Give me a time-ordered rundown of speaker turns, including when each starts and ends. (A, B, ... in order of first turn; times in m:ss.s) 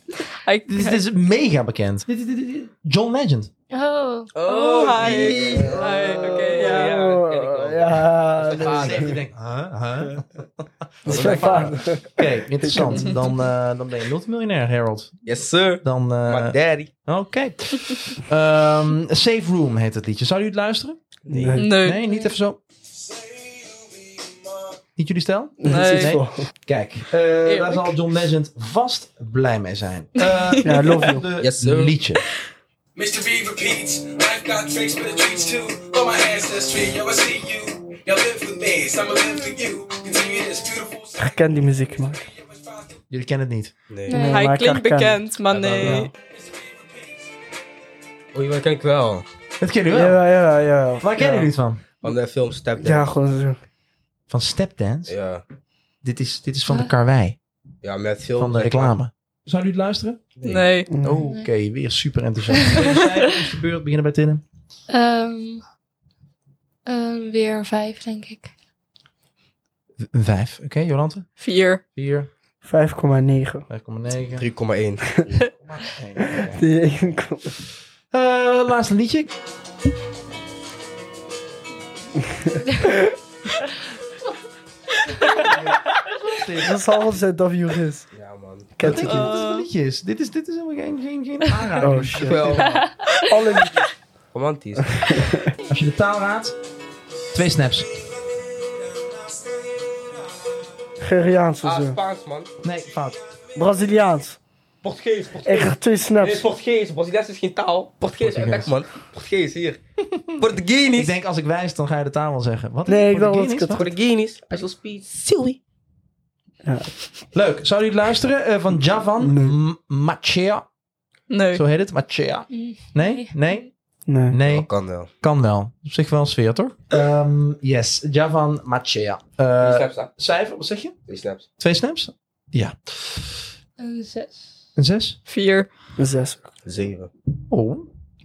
0:00.2-0:01.0 A
0:00.7-0:03.5 B
0:03.7-0:04.3 C
0:04.3-0:09.2 D
0:04.4-0:07.0 A
0:05.5-0:09.2 E
0:08.5-0:21.0 B
0:11.0-0:13.1 E
0:11.1-0:11.8 D
0:15.2-0:16.9 D
0:21.3-0:21.7 E
0:21.3-0:21.6 D
0:21.5-0:22.6 B
0:21.6-0:22.0 A
0:23.0-0:24.5 F
0:25.0-0:32.2 B
0:25.6-0:26.5 E
0:25.7-0:26.2 A
0:27.5-0:27.8 D
0:30.2-0:30.6 A
0:30.6-0:31.3 E
0:31.4-0:32.0 D
0:33.0-0:43.0 F
0:41.2-0:42.2 E
0:43.1-0:43.7 B
0:43.9-0:44.1 D
0:44.1-0:44.5 C
0:44.1-0:45.2 E
0:44.1-0:46.1 A
0:45.5-0:46.1 D
0:46.1-0:47.2 F
0:48.3-0:49.3 D
0:49.6-0:50.2 B
0:49.9-0:51.5 E
0:51.0-0:51.8 B
0:52.0-0:53.1 D
0:52.8-0:53.6 E
0:54.3-0:55.1 B
0:55.1-0:55.4 D
0:56.0-0:57.4 B
0:57.8-0:58.9 D
0:58.4-1:00.2 B
1:00.4-1:00.6 D
1:00.4-1:00.9 A
1:00.9-1:01.3 E
1:01.0-1:04.4 B
1:04.9-1:05.6 C
1:06.8-1:08.5 C
1:10.0-1:11.3 B
1:11.4-1:11.8 A
1:11.9-1:12.3 B
1:12.6-1:13.6 E
1:13.7-1:14.5 B
1:14.3-1:15.5 D
1:15.6-1:16.6 B
1:16.2-1:17.6 E
1:18.1-1:19.3 B
1:22.3-1:23.1 E
1:25.4-1:26.8 B
1:26.6-1:28.1 E
1:28.1-1:28.9 D
1:28.8-1:29.4 E
1:28.8-1:32.6 B
1:29.0-1:29.7 A
1:31.8-1:32.7 E
1:32.2-1:32.9 D
1:32.6-1:33.2 C
1:33.2-1:33.8 E
1:34.3-1:35.2 D
1:34.8-1:35.5 E
1:35.6-1:36.6 B
1:37.3-1:37.9 B
1:41.0-1:42.0 E
1:41.6-1:42.5 D
1:42.6-1:43.2 B
1:43.5-1:44.4 E
1:44.8-1:49.8 D
1:45.4-1:46.5 E
1:48.2-1:48.7 B
1:50.4-1:51.1 D
1:50.9-1:53.8 B
1:52.9-1:53.9 E
1:53.7-1:55.6 D
1:56.6-1:56.9 E
1:57.3-2:00.6 B
1:59.2-1:59.5 E
2:01.3-2:01.6 A
2:01.5-2:03.7 B
2:02.5-2:03.4 C
2:04.1-2:04.4 E
2:04.3-2:04.7 B
2:04.4-2:05.1 D
2:05.2-2:11.0 B
2:09.6-2:10.1 D
2:11.1-2:11.4 D
2:11.6-2:13.5 B
2:13.8-2:14.5 C
2:14.8-2:15.2 B
2:15.3-2:15.7 A
2:16.0-2:16.5 E
2:16.6-2:17.1 D
2:17.5-2:17.9 B